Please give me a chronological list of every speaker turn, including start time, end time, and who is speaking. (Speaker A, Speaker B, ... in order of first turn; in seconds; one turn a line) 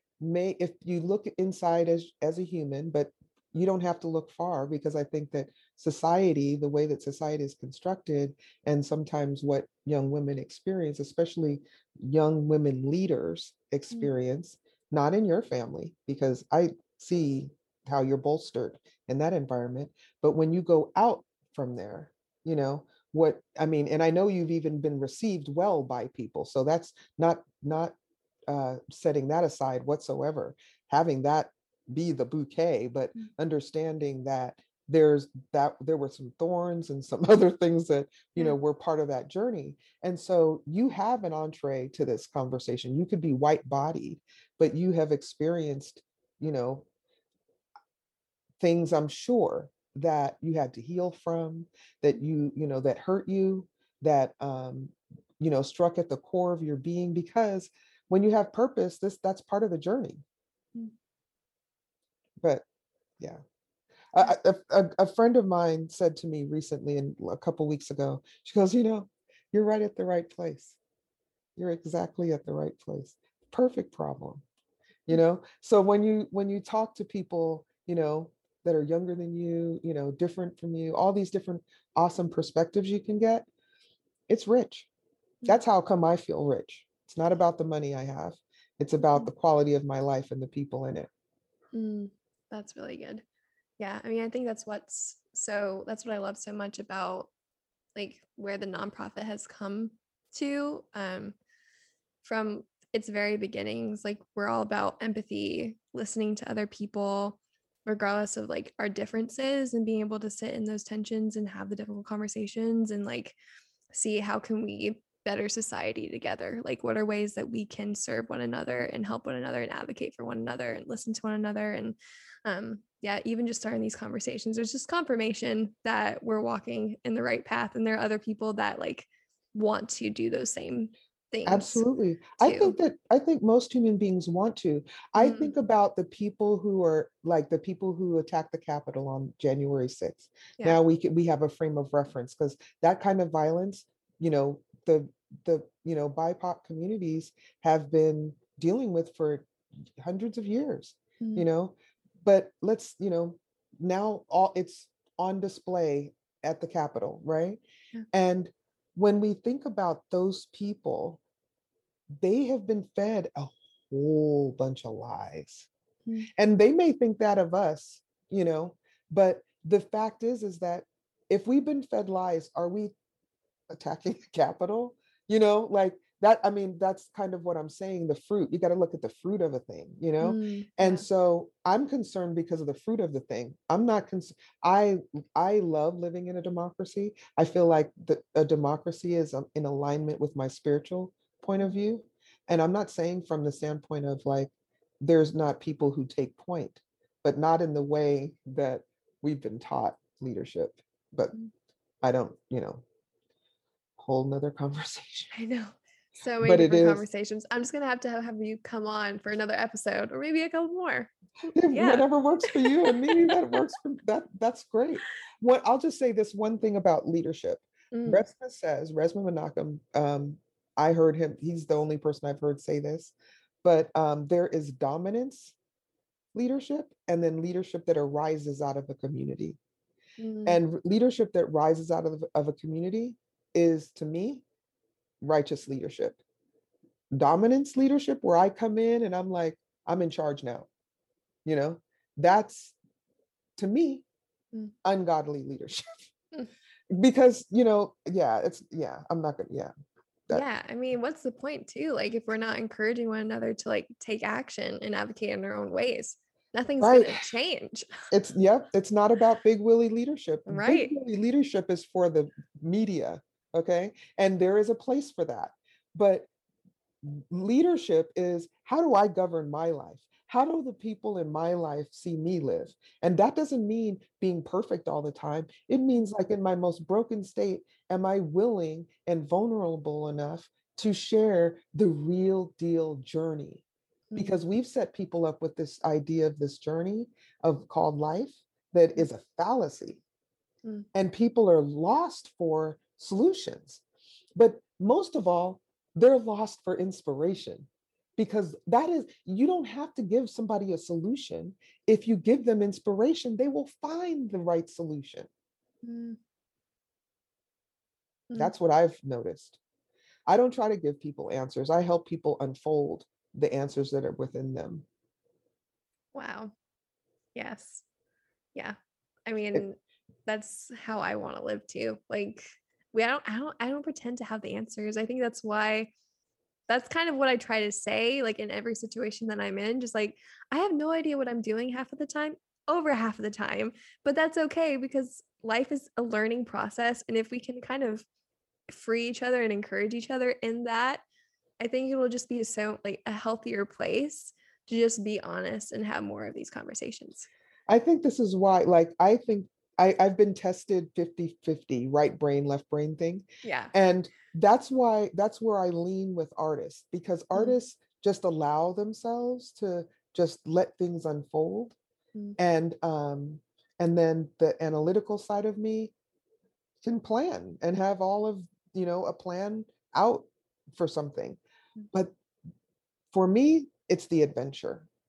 Speaker A: 0.2-27.9
Speaker A: 28.5-46.9
Speaker A: 48.6-60.2
Speaker A: 64.1-70.8
Speaker A: 71.6-74.4
Speaker A: 75.1-83.5
Speaker A: 84.3-84.9
Speaker A: 85.5-91.1
Speaker B: 89.0-89.3
Speaker B: 91.7-93.2
Speaker B: 93.8-97.3
Speaker B: 98.0-101.3
Speaker B: 102.2-113.4
Speaker B: 113.9-131.8
Speaker A: 131.5-157.6
Speaker B: 132.4-132.8
Speaker B: 135.2-135.5
Speaker B: 151.2-151.5
Speaker A: 158.1-161.2
Speaker A: 162.2-165.7
Speaker A: 166.3-172.9
Speaker A: 173.7-201.3
Speaker B: 180.2-181.1
Speaker A: 202.0-202.8
Speaker A: 204.0-205.3
Speaker B: 205.3-211.1
Speaker A: 206.4-207.1
Speaker A: 211.6-225.6
Speaker B: 211.7-213.6
Speaker B: 217.9-218.2
Speaker A: 226.3-229.6
Speaker B: 230.2-230.6
Speaker A: 230.5-234.4
Speaker A: 235.2-236.2
Speaker A: 237.1-240.7
Speaker A: 241.4-242.8
Speaker A: 243.6-244.1
Speaker A: 244.8-246.0
Speaker A: 246.9-249.7
Speaker B: 250.3-257.9
Speaker A: 256.8-257.3
Speaker A: 258.1-266.3
Speaker B: 260.5-260.9
Speaker A: 267.0-283.6
Speaker B: 284.1-284.4
Speaker A: 284.2-290.0
Speaker A: 290.9-293.8
Speaker A: 294.4-305.3
Speaker B: 305.8-306.2
Speaker A: 308.4-309.6
Speaker A: 310.3-314.9
Speaker B: 316.1-316.5
Speaker B: 317.4-317.8
Speaker B: 318.6-325.9
Speaker B: 326.7-338.1
Speaker B: 338.7-341.0
Speaker B: 341.6-347.3
Speaker A: 347.7-361.8
Speaker B: 353.4-353.7
Speaker A: 362.4-365.9
Speaker A: 366.8-371.4
Speaker A: 373.1-374.9